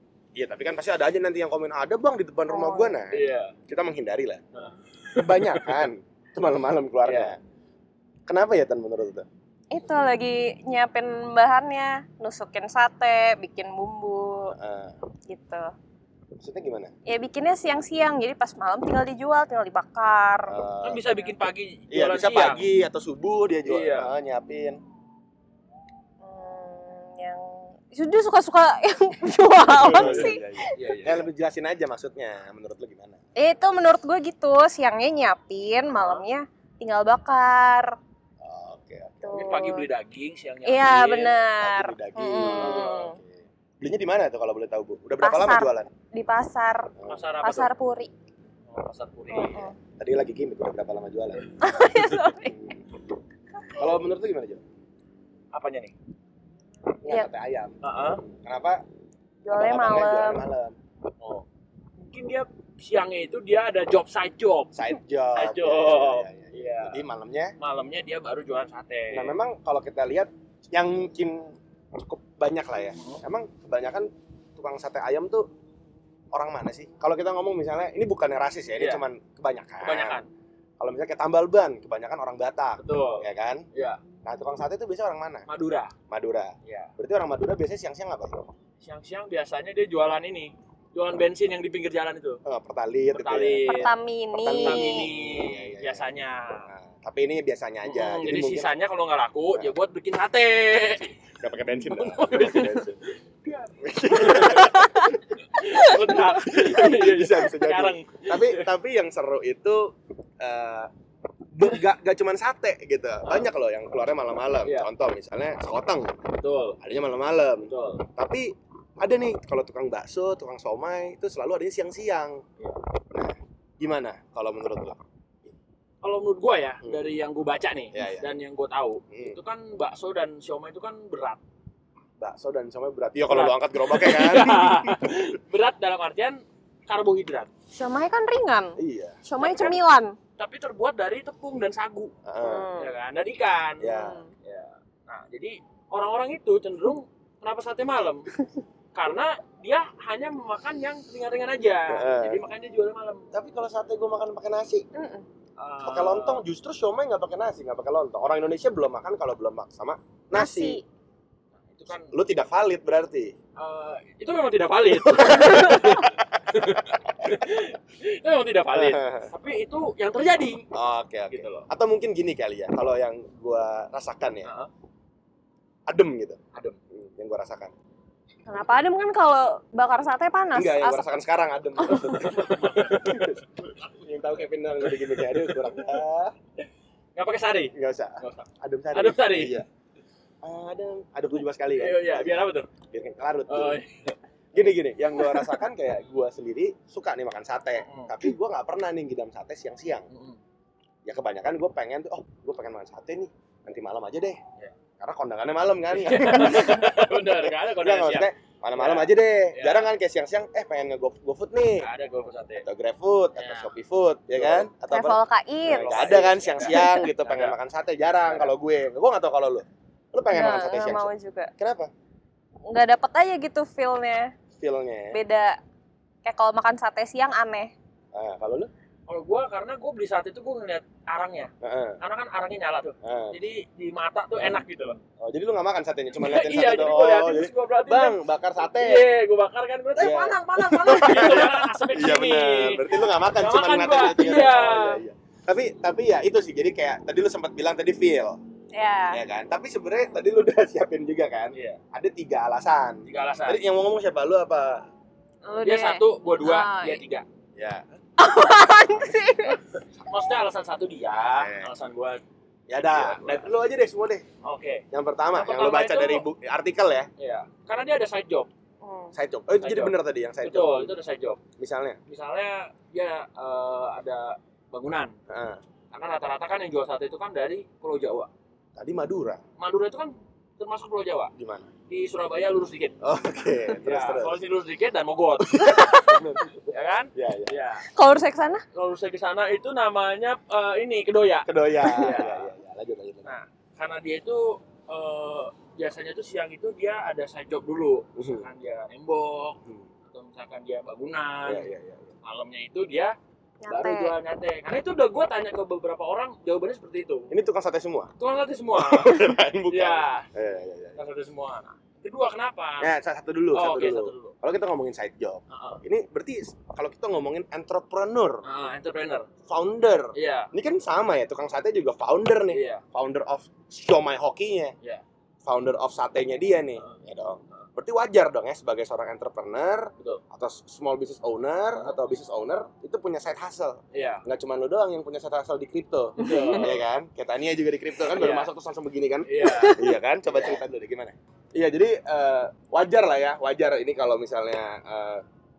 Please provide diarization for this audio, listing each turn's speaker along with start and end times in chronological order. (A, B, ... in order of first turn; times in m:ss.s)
0:00.3-0:04.4 A
0:02.5-0:03.0 B
0:03.1-0:03.5 C
0:04.5-0:05.8 C
0:05.2-0:07.4 A
0:07.0-0:07.4 C
0:08.3-0:09.2 A
0:09.7-0:14.5 B
0:14.5-0:15.0 A
0:15.3-0:15.7 B
0:16.4-0:16.9 A
0:17.0-0:20.6 B
0:20.5-0:21.0 A
0:20.8-0:22.7 C
0:21.9-0:24.8 A
0:23.6-0:24.1 C
0:26.2-0:30.7 B
0:29.8-0:33.2 A
0:29.8-0:31.2 C
0:33.4-0:38.0 B
0:35.9-0:36.2 C
0:38.4-0:39.6 A
0:39.2-0:39.9 B
0:39.3-0:41.4 C
0:40.6-0:43.2 B
0:41.4-0:45.9 A
0:42.4-0:43.1 C
0:45.2-0:48.1 B
0:47.0-0:47.2 A
0:47.1-0:47.7 C
0:48.7-0:49.7 C
0:49.3-0:49.7 B
0:50.0-0:51.4 A
0:51.6-0:52.7 B
0:52.5-0:52.8 A
0:53.7-0:54.6 A
0:55.5-0:55.9 C
0:57.0-0:58.8 A
0:57.8-0:58.2 C
0:59.4-1:00.4 B
0:59.5-1:00.7 A
1:02.0-1:04.7 C
1:04.7-1:07.5 A
1:05.3-1:07.0 C
1:07.6-1:09.4 C
1:09.1-1:15.5 A
1:16.3-1:20.2 A
1:18.8-1:19.0 C
1:19.8-1:20.3 C
1:20.8-1:23.6 A
1:22.8-1:24.0 C
1:24.2-1:25.4 A
1:25.5-1:25.9 C
1:26.1-1:28.5 A
1:26.6-1:26.9 C
1:28.8-1:32.4 C
1:32.4-1:33.7 A
1:33.1-1:34.0 C
1:33.7-1:35.1 B
1:34.4-1:36.1 A
1:34.5-1:36.7 C
1:36.7-1:38.7 A
1:37.8-1:48.7 C
1:41.4-1:43.0 A
1:43.8-1:45.2 A
1:46.0-1:50.9 A
1:51.5-1:56.1 A
1:53.2-1:53.5 C
1:54.6-1:54.9 C
1:56.3-1:56.8 C
1:56.8-2:02.4 A
1:57.6-1:58.0 C
2:03.1-2:05.5 A
2:06.0-2:11.4 C
2:06.8-2:07.1 A
2:07.9-2:08.3 A
2:09.1-2:09.4 A
2:12.2-2:15.2 A
2:13.3-2:17.5 C
2:17.7-2:20.2 B
2:18.8-2:19.5 A
2:19.4-2:19.8 C
2:20.4-2:22.1 C
2:22.2-2:22.7 A
2:22.4-2:22.9 B
2:22.8-2:28.2 C
2:23.8-2:24.2 A
2:23.9-2:24.3 B
2:28.9-2:33.3 C
2:31.9-2:32.4 A
2:33.3-2:34.9 A
2:34.9-2:35.2 B
2:35.6-2:36.4 C
2:35.8-2:40.8 A
2:40.3-2:40.8 B
2:41.6-2:42.1 C
2:41.9-2:43.3 A
2:43.6-2:50.7 C
2:45.1-2:46.2 A
2:48.7-2:49.3 A
2:50.7-2:54.5 A
2:51.3-2:51.7 C
2:54.4-2:54.7 C
2:55.9-2:56.4 A
2:56.5-2:56.8 C
2:56.9-2:57.7 A
2:58.4-3:01.2 B
3:00.5-3:06.3 A
3:01.8-3:02.3 B
3:02.3-3:03.4 C
3:05.0-3:06.0 C
3:07.1-3:09.6 C
3:07.7-3:09.7 A
3:10.4-3:12.3 A
3:11.7-3:12.7 C
3:12.9-3:13.8 A
3:13.5-3:14.2 C
3:14.5-3:20.1 A
3:15.2-3:15.5 C
3:17.8-3:18.2 C
3:20.1-3:20.4 C
3:21.0-3:24.4 A
3:25.0-3:31.9 A
3:25.9-3:29.9 C
3:31.8-3:32.7 C
3:32.6-3:41.9 A
3:33.4-3:33.7 C
3:34.3-3:34.7 C
3:34.9-3:37.1 B
3:35.6-3:37.6 C
3:38.2-3:38.5 C
3:40.3-3:41.5 B
3:42.7-3:44.3 B
3:44.6-3:45.2 A
3:45.1-3:45.6 B
3:46.2-3:47.7 B
3:48.1-3:48.7 A
3:49.0-3:55.0 C
3:51.6-3:52.0 A
3:53.0-3:53.4 A
3:55.2-3:59.1 A
3:56.2-3:58.2 C
3:58.8-4:05.0 C
4:00.0-4:08.4 A
4:08.7-4:09.2 B
4:09.1-4:14.8 A
4:11.5-4:11.8 C
4:13.0-4:13.6 C
4:15.4-4:17.0 B
4:15.6-4:17.3 C
4:17.6-4:17.8 A
4:18.2-4:19.6 B
4:20.0-4:22.2 C
4:21.3-4:21.7 A
4:22.7-4:24.2 A
4:22.8-4:23.4 C
4:24.4-4:26.3 C
4:24.9-4:27.1 A
4:27.2-4:28.5 C
4:28.8-4:29.1 B
4:29.1-4:30.9 A
4:29.6-4:31.4 C
4:31.6-4:32.0 A
4:32.1-4:35.1 C
4:35.3-4:35.6 A
4:35.9-4:38.3 C
4:38.8-4:39.4 A
4:39.6-4:41.3 C
4:41.4-4:41.7 A
4:41.9-4:43.0 C
4:43.0-4:44.4 A
4:43.8-4:47.9 C
4:45.4-4:47.6 A
4:47.9-4:48.6 B
4:48.7-4:52.5 C
4:51.4-4:53.3 A
4:53.2-5:01.7 C
4:58.2-4:58.5 A
5:01.4-5:02.1 A
5:02.2-5:03.1 C
5:03.6-5:04.1 B
5:03.7-5:07.4 C
5:07.3-5:08.1 A
5:08.2-5:10.3 C
5:08.7-5:11.0 A
5:10.9-5:12.9 C
5:12.8-5:18.4 A
5:13.5-5:14.3 C
5:15.5-5:15.8 C
5:18.4-5:19.3 C
5:19.5-5:24.7 A
5:20.1-5:20.5 C
5:22.5-5:22.8 C
5:25.4-5:45.2 A
5:26.8-5:27.6 C
5:31.7-5:32.0 C
5:33.9-5:34.2 C
5:36.2-5:36.8 C
5:36.2-5:36.5 B
5:38.1-5:38.5 C
5:39.2-5:40.6 C